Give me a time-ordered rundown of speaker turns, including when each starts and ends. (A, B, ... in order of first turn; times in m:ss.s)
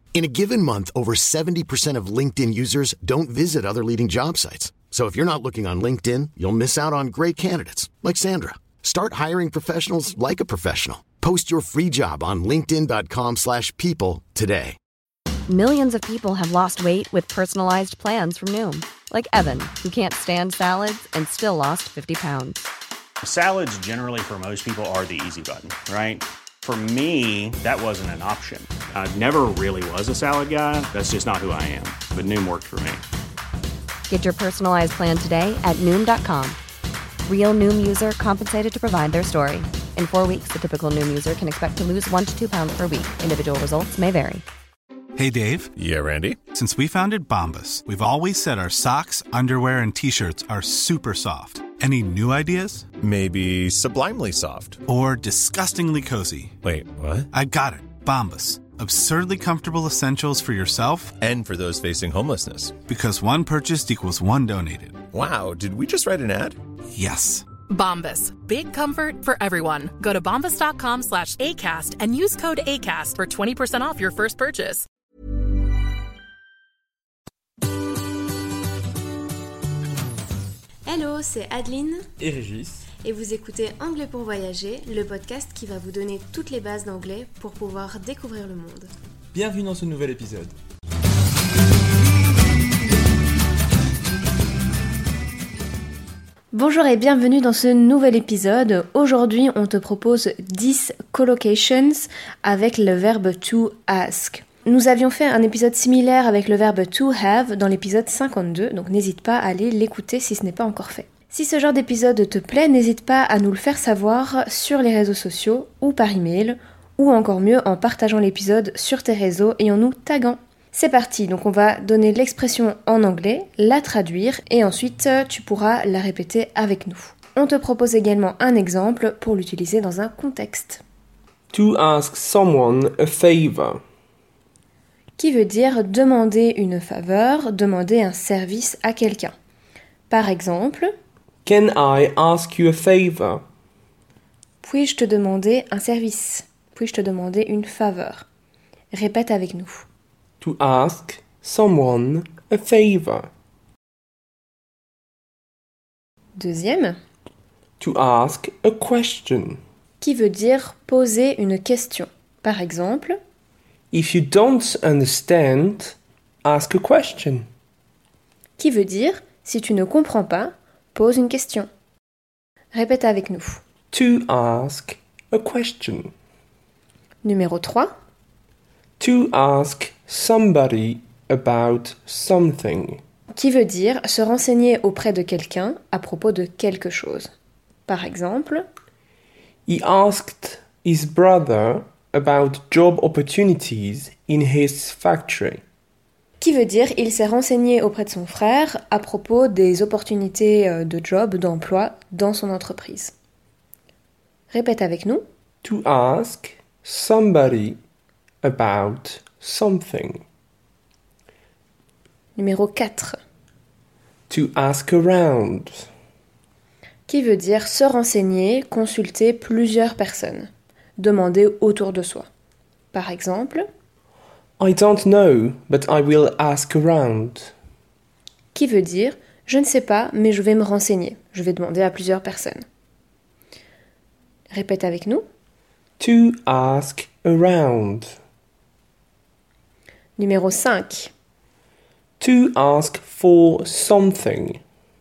0:00.1-0:14.8 A
0:15.5-0:22.7 B
0:23.2-0:33.0 C
0:34.1-0:36.6 B
0:37.3-0:44.4 B
0:45.2-0:45.7 D
0:45.8-0:46.5 E
0:46.5-0:52.9 D
0:53.0-0:54.8 E
0:54.9-0:56.6 D
0:56.6-0:57.3 E
0:57.3-1:01.2 D
1:01.2-1:02.8 E
1:02.9-1:05.0 D
1:05.1-1:06.6 E
1:06.9-1:07.5 D
1:07.7-1:14.8 F
1:20.9-1:22.1 G
1:22.2-1:22.9 H
1:23.0-1:28.9 G
1:29.3-1:30.5 H
1:36.5-2:10.8 G
2:11.5-2:13.8 H
2:15.2-2:19.3 G
2:20.1-2:20.9 G
2:21.5-2:23.4 H
2:24.6-2:28.3 G
2:28.9-2:29.9 G
2:30.4-2:33.3 H
2:36.4-2:37.0 G
2:37.8-2:39.6 H
2:40.0-2:43.2 G
2:43.9-2:47.4 H
2:48.6-2:51.7 G
2:52.7-2:53.6 G
2:53.9-2:56.1 H
2:57.2-2:57.9 G
2:59.0-3:03.0 H
3:03.3-3:07.3 G
3:07.9-3:08.7 G
3:09.7-3:15.6 H
3:16.4-3:23.1 G
3:24.5-3:25.2 G
3:25.6-3:27.8 H
3:28.4-3:30.2 H
3:32.4-3:33.2 G
3:34.3-3:35.9 H
3:37.1-3:42.3 G
3:42.9-3:43.7 G
3:44.6-3:47.5 H
3:48.5-3:52.6 G
3:54.5-3:55.2 G
3:56.0-3:58.2 H
4:00.2-4:01.1 G
4:02.2-4:04.6 H